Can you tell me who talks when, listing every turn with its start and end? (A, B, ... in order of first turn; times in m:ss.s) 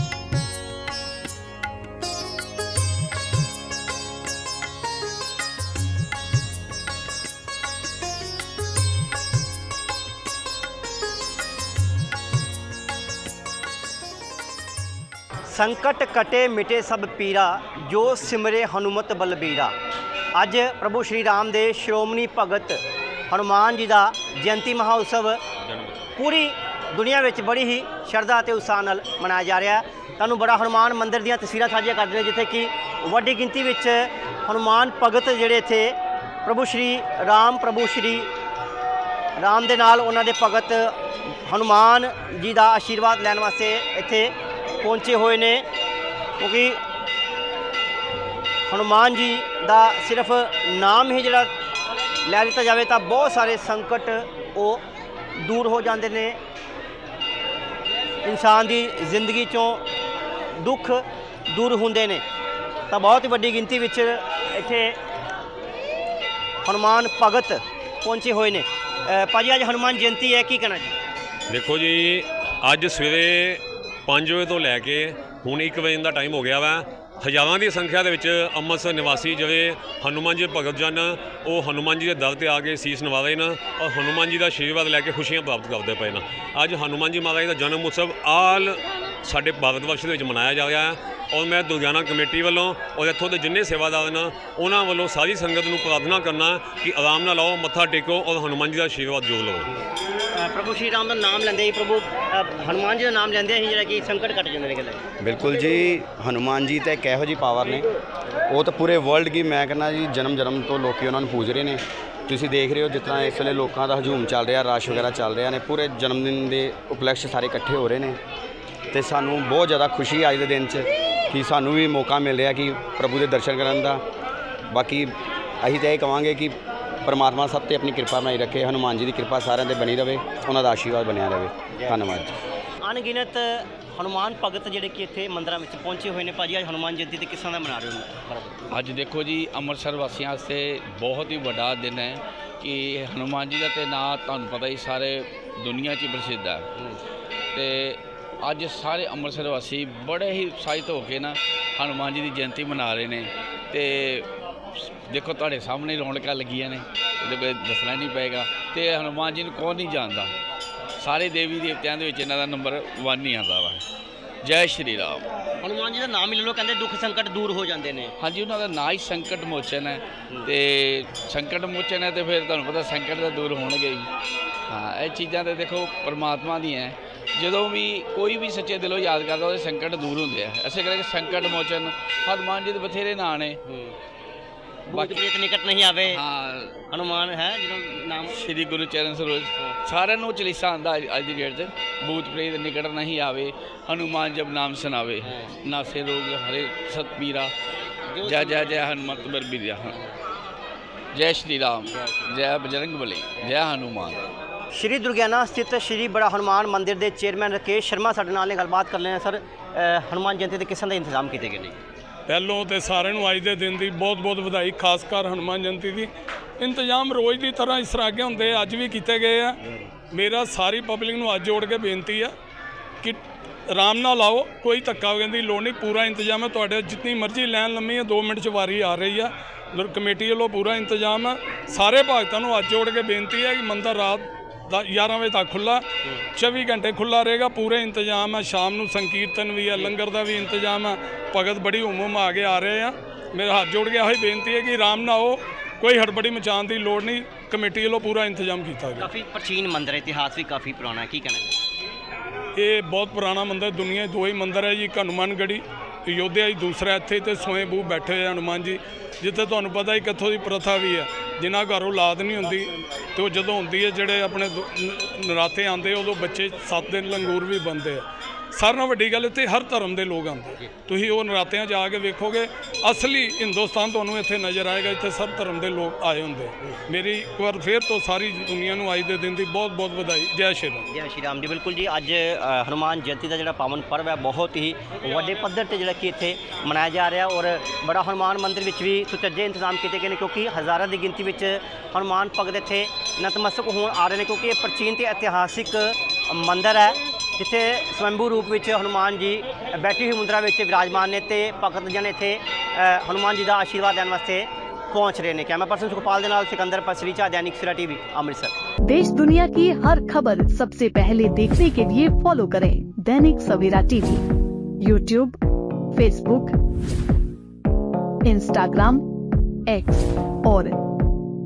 0:15.5-0:19.7 A
0:20.4-0:22.8 A
0:23.3-0:25.4 A
0:25.6-0:26.2 B
0:26.2-0:38.3 A
0:39.4-0:45.7 A
0:46.4-0:46.8 A
0:48.7-0:51.5 A
0:52.2-0:54.8 A
0:55.4-0:56.4 A
0:58.2-0:59.8 A
1:00.6-1:02.2 A
1:02.9-1:05.0 A
1:06.6-1:10.9 A
1:11.5-1:39.7 B
1:40.4-1:45.0 A
1:45.2-1:47.9 C
1:48.5-1:58.2 C
1:58.9-2:04.0 C
2:04.7-2:06.5 C
2:07.0-2:12.4 C
2:12.8-2:18.6 A
2:18.7-2:26.7 D
2:27.5-2:34.3 D
2:34.8-2:40.3 D
2:41.0-2:43.8 D
2:44.4-2:45.2 D
2:45.6-2:48.1 A
2:48.2-2:54.1 D
2:54.7-3:03.6 D
3:03.7-3:04.0 A
3:04.9-3:06.2 A
3:04.9-3:05.2 D
3:06.1-3:06.8 D
3:06.9-3:08.4 A
3:08.3-3:17.5 D
3:15.2-3:15.5 A
3:18.1-3:18.8 A
3:18.2-3:20.0 D
3:21.1-3:24.3 D
3:24.7-3:31.8 A
3:32.3-3:39.6 E
3:40.1-3:42.4 E
3:43.0-4:09.1 E
4:09.0-4:11.6 A
4:12.6-4:40.9 E
4:40.9-5:08.5 A
5:08.8-5:14.2 F
5:14.8-5:15.4 F
5:15.9-5:16.6 F
5:18.2-5:19.0 F
5:19.7-5:20.8 F